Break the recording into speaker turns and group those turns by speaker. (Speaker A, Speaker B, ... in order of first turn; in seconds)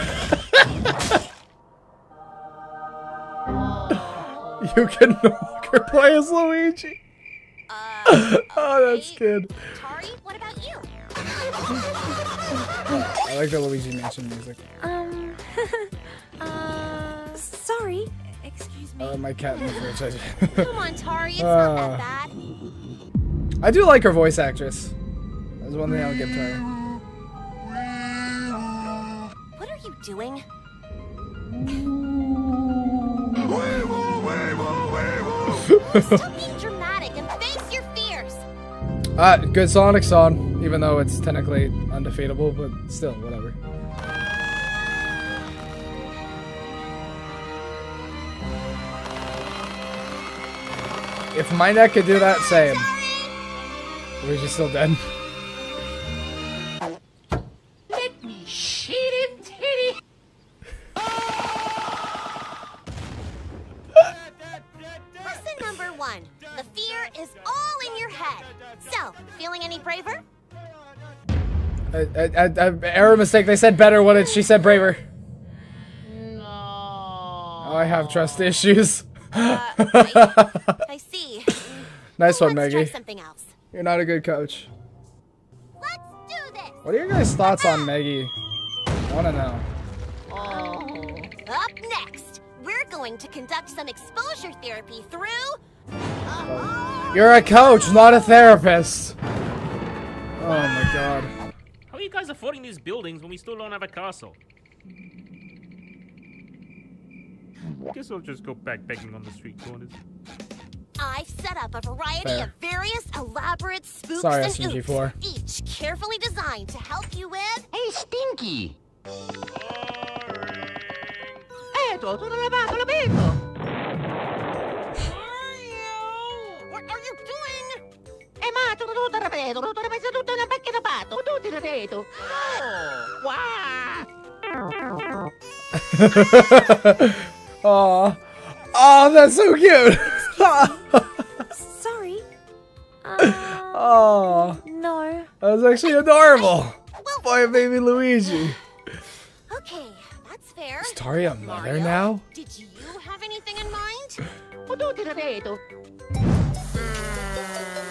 Speaker A: 4.6-7.0, 8.1-9.6, 13.0-14.6, 19.0-20.7, 21.4-22.1, 23.6-24.9, 25.6-26.6, 35.5-35.8, 39.2-43.6, 51.3-52.9, 54.2-55.0, 71.9-75.0, 77.6-80.7, 82.2-83.0, 83.7-84.7, 86.8-88.3, 89.1-89.7, 96.5-99.2, 100.4-101.3, 112.2-112.5, 114.1-115.1, 135.7-141.2, 143.2-144.6, 145.4-148.6, 150.8-152.2
Speaker B: 7.7-10.9, 20.6-22.3, 29.6-30.4, 35.6-38.4, 65.2-70.2, 79.3-83.5, 85.8-87.9, 90.4-90.6, 91.5-95.6, 96.3-97.3, 111.0-117.7, 125.0-127.8, 146.1-147.3, 149.5-154.2
Speaker C: 14.8-19.1, 141.5-142.2, 144.7-145.3
Speaker D: 17.2-17.6, 18.7-19.2, 101.9-104.4, 107.9-110.0, 140.2-140.8, 143.1-144.7
Speaker E: 57.9-59.9, 76.1-78.3, 90.3-91.3, 117.7-118.8, 121.7-123.4, 128.4-134.1, 154.7-155.6